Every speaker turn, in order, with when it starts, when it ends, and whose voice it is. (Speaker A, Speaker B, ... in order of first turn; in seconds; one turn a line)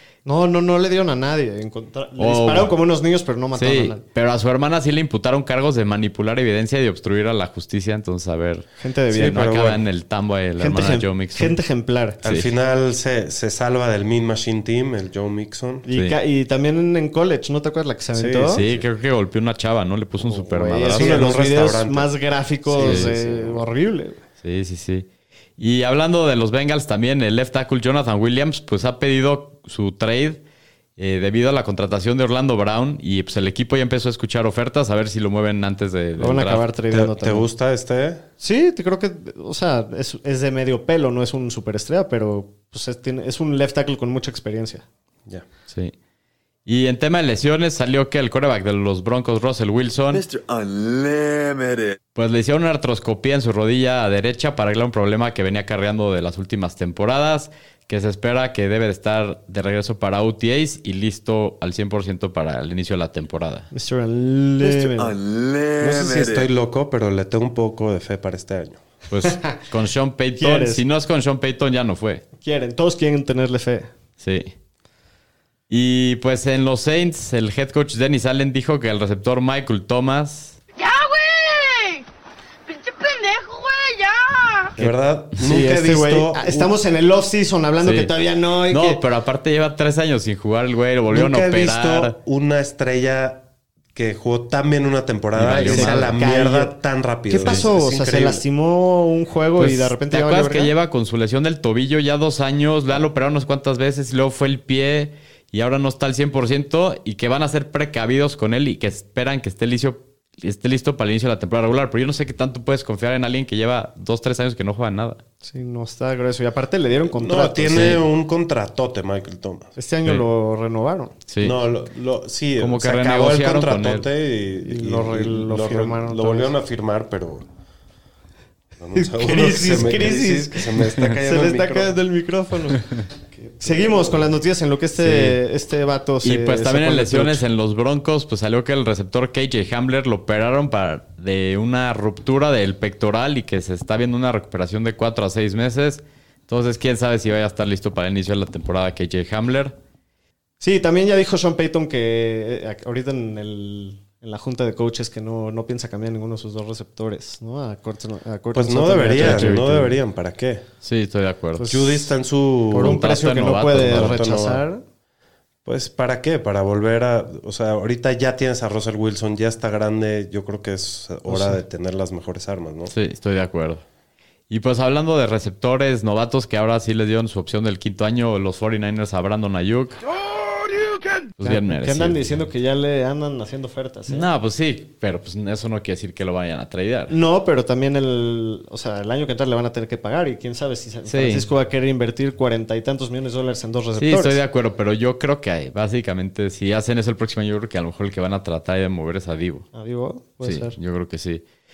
Speaker A: 0.2-4.0
Speaker B: 2.2-2.7
Speaker B: 3.5-11.6
Speaker A: 8.8-9.4
Speaker C: 9.1-9.8
Speaker A: 10.6-12.2
Speaker C: 12.2-15.9
Speaker A: 15.9-18.6
Speaker B: 15.9-16.2
Speaker C: 18.1-18.9
Speaker B: 18.5-21.2
Speaker A: 20.2-24.2
Speaker C: 20.9-22.1
Speaker C: 22.7-23.6
Speaker B: 22.8-23.1
Speaker B: 24.4-25.1
Speaker B: 25.6-30.4
Speaker B: 31.0-36.7
Speaker A: 36.2-37.5
Speaker C: 36.9-38.2
Speaker A: 38.4-44.8
Speaker B: 46.7-50.2
Speaker D: 50.1-52.0
Speaker B: 52.1-63.7
Speaker A: 63.7-65.2
Speaker D: 64.6-66.5
Speaker C: 65.8-68.8
Speaker B: 69.1-72.2
Speaker A: 69.2-69.6
Speaker A: 70.4-70.8
Speaker A: 72.4-73.9
Speaker B: 74.2-74.5
Speaker B: 75.7-80.6
Speaker E: 80.8-82.1
Speaker E: 82.7-84.7
Speaker C: 84.8-86.7
Speaker A: 85.4-89.0
Speaker B: 87.8-88.1
Speaker B: 88.7-92.2
Speaker C: 91.1-98.4
Speaker B: 95.3-96.2
Speaker A: 95.7-96.8
Speaker A: 97.3-100.7
Speaker B: 99.6-115.2
Speaker A: 115.4-118.0
Speaker C: 117.1-119.7
Speaker B: 117.7-118.0
Speaker A: 119.8-121.2
Speaker B: 121.3-121.6
Speaker C: 121.4-127.5
Speaker B: 122.6-124.1
Speaker A: 124.6-126.5
Speaker C: 128.8-132.0
Speaker A: 128.9-137.4
Speaker C: 133.6-133.9
Speaker B: 135.0-135.4
Speaker B: 136.2-149.7
Speaker A: 150.6-159.9
Speaker C: 158.5-160.6
Speaker B: 159.2-159.8
Speaker B: 160.8-161.7
Speaker A: 161.6-162.1
Speaker C: 161.7-163.1
Speaker A: 162.7-164.8
Speaker B: 162.7-164.2
Speaker C: 163.8-164.6
Speaker C: 165.7-172.9
Speaker A: 171.3-171.6
Speaker B: 172.9-173.8
Speaker B: 174.5-180.0
Speaker B: 181.4-182.2
Speaker A: 181.4-184.3
Speaker B: 184.1-187.2
Speaker A: 187.1-194.4
Speaker B: 191.1-191.5
Speaker B: 194.0-199.7
Speaker A: 199.7-200.8
Speaker B: 200.4-201.4